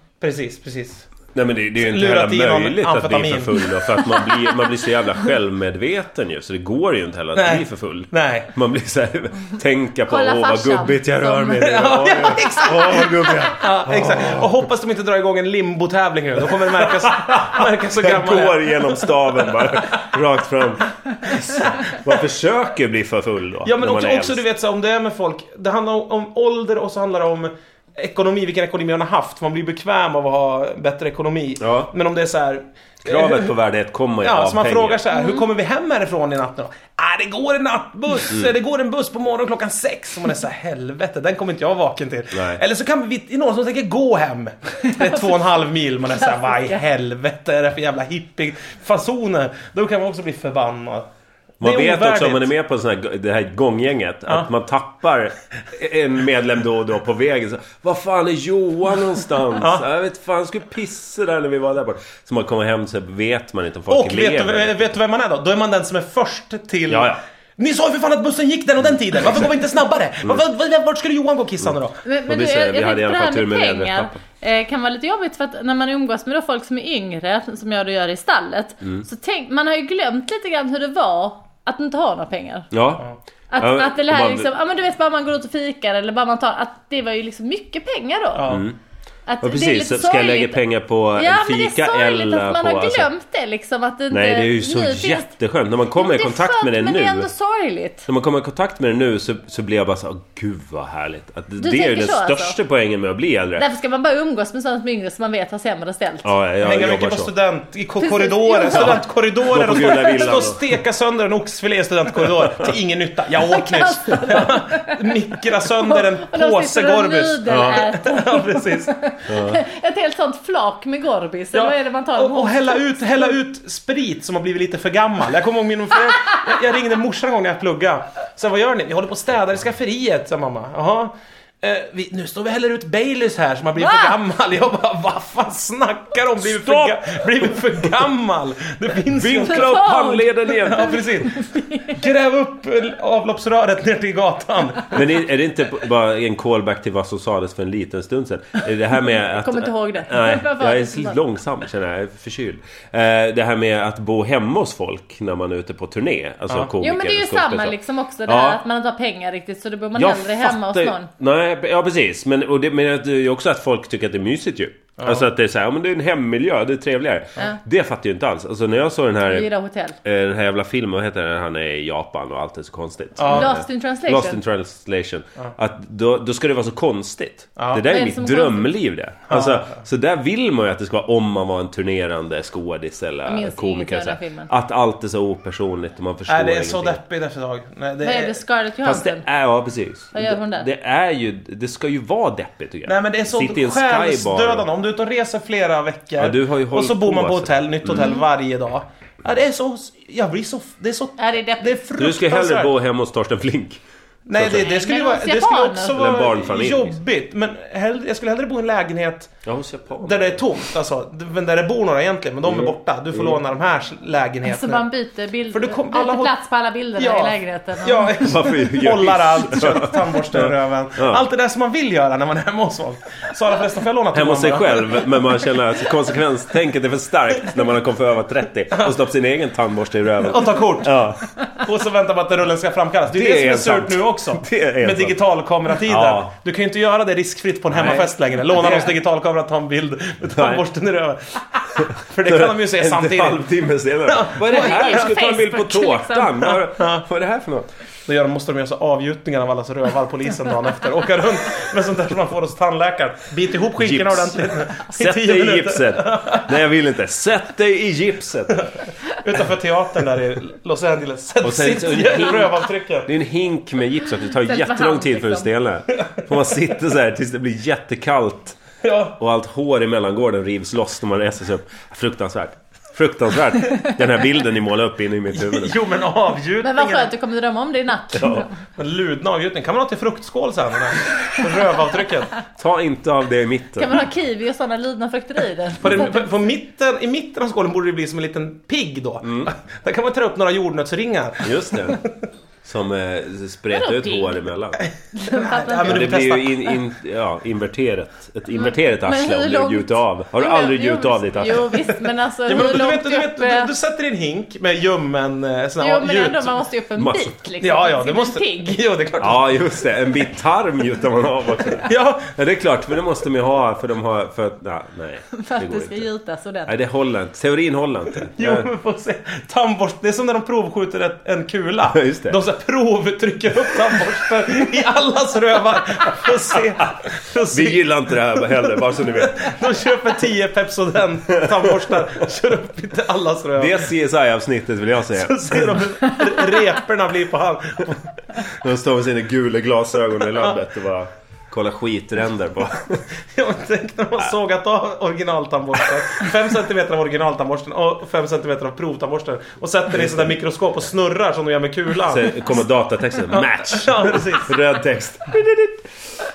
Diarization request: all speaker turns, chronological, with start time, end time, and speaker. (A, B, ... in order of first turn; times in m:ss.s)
0:00.2-0:01.1 A
0:01.3-0:14.5 B
0:01.8-0:03.8 A
0:07.4-0:08.5 A
0:10.1-0:11.9 C
0:11.6-0:20.0 A
0:12.4-0:13.3 C
0:17.0-0:24.4 B
0:21.2-0:22.0 A
0:23.6-0:33.5 A
0:31.6-0:31.9 B
0:33.0-0:35.0 B
0:34.2-0:51.1 A
0:35.1-0:35.4 C
0:42.3-0:42.6 B
0:44.8-0:45.4 C
0:46.1-0:46.8 C
0:51.6-0:52.5 A
0:51.6-1:04.9 B
0:59.6-0:59.8 A
1:03.9-1:12.0 A
1:06.9-1:07.2 B
1:12.0-1:22.7 C
1:12.3-1:14.2 B
1:22.7-1:23.1 B
1:23.5-1:28.6 C
1:23.6-1:24.5 B
1:28.4-1:28.6 A
1:28.5-1:28.8 B
1:29.3-1:30.6 C
1:29.4-1:33.1 B
1:31.2-1:35.3 C
1:34.1-1:37.3 B
1:36.0-1:38.1 C
1:38.1-1:43.6 B
1:41.6-1:42.6 C
1:43.6-1:46.3 C
1:46.2-1:47.3 B
1:46.6-1:59.0 A
1:48.0-1:49.1 C
1:48.7-1:50.6 B
1:49.8-1:50.2 C
1:52.4-1:52.7 B
1:53.5-2:03.3 C
1:57.5-1:57.8 B
1:59.3-1:59.6 B
2:01.5-2:19.9 A
2:13.8-2:14.2 C
2:16.4-2:17.0 B
2:19.1-2:21.0 B
2:19.4-2:22.0 C
2:20.6-2:25.1 A
2:24.9-2:38.6 B
2:29.1-2:31.2 C
2:36.8-2:41.1 C
2:40.0-2:49.5 B
2:45.0-2:45.2 A
2:49.2-2:50.0 C
2:50.0-3:07.0 B
2:53.2-2:53.5 A
2:53.2-2:54.4 C
2:57.6-2:57.9 A
2:57.8-2:58.7 C
2:59.3-2:59.8 A
3:03.3-3:04.5 C
3:06.3-3:08.4 A
3:08.0-3:09.2 C
3:08.8-3:14.7 B
3:10.1-3:10.7 C
3:12.9-3:22.7 A
3:16.2-3:18.1 B
3:17.9-3:18.2 C
3:21.2-3:21.8 C
3:22.0-3:23.8 B
3:24.3-3:29.4 A
3:24.3-3:24.7 B
3:24.5-3:26.0 C
3:25.9-3:27.0 B
3:29.5-3:30.4 B
3:30.0-3:34.9 A
3:32.4-3:33.4 B
3:34.5-3:38.1 C
3:35.5-3:36.3 A
3:37.0-3:45.1 A
3:38.2-3:41.2 B
3:44.1-3:51.3 B
3:50.2-4:03.5 A
3:53.1-3:55.2 B
3:55.8-3:56.3 B
3:57.7-3:58.9 B
4:00.3-4:00.6 B
4:01.8-4:07.7 B
4:04.1-4:05.1 A
4:04.5-4:06.5 C
4:06.5-4:07.0 A
4:08.1-4:16.5 A
4:13.8-4:18.6 B
4:19.2-4:23.1 A
4:21.4-4:28.6 B
4:24.4-4:25.5 C
4:28.8-4:29.2 A
4:29.2-4:35.8 B
4:35.3-4:37.1 A
4:36.6-4:38.5 C
4:38.2-4:38.5 B
4:38.8-4:42.3 A
4:42.6-4:44.0 B
4:43.8-4:46.3 C
4:45.8-4:52.1 A
4:49.2-4:49.5 B
4:51.4-4:52.0 B
4:52.6-4:54.8 B
4:53.7-4:54.4 C
4:54.8-4:56.7 A
4:55.2-4:56.1 C
4:55.8-5:01.9 B
4:58.6-5:03.7 C
5:02.5-5:06.6 A
5:05.8-5:08.8 C
5:07.0-5:07.3 B
5:07.6-5:09.8 A
5:09.2-5:16.1 B
5:11.8-5:12.3 A
5:15.3-5:16.7 C
5:16.7-5:18.7 B
5:18.4-5:33.8 A
5:21.9-5:22.4 B
5:27.5-5:29.5 B
5:31.3-5:31.9 B
5:33.6-5:35.8 B
5:35.2-5:38.1 A
5:38.5-5:43.0 B
5:43.3-5:52.4 A
5:49.9-5:50.4 B
5:52.1-5:55.9 B
5:53.3-5:54.6 A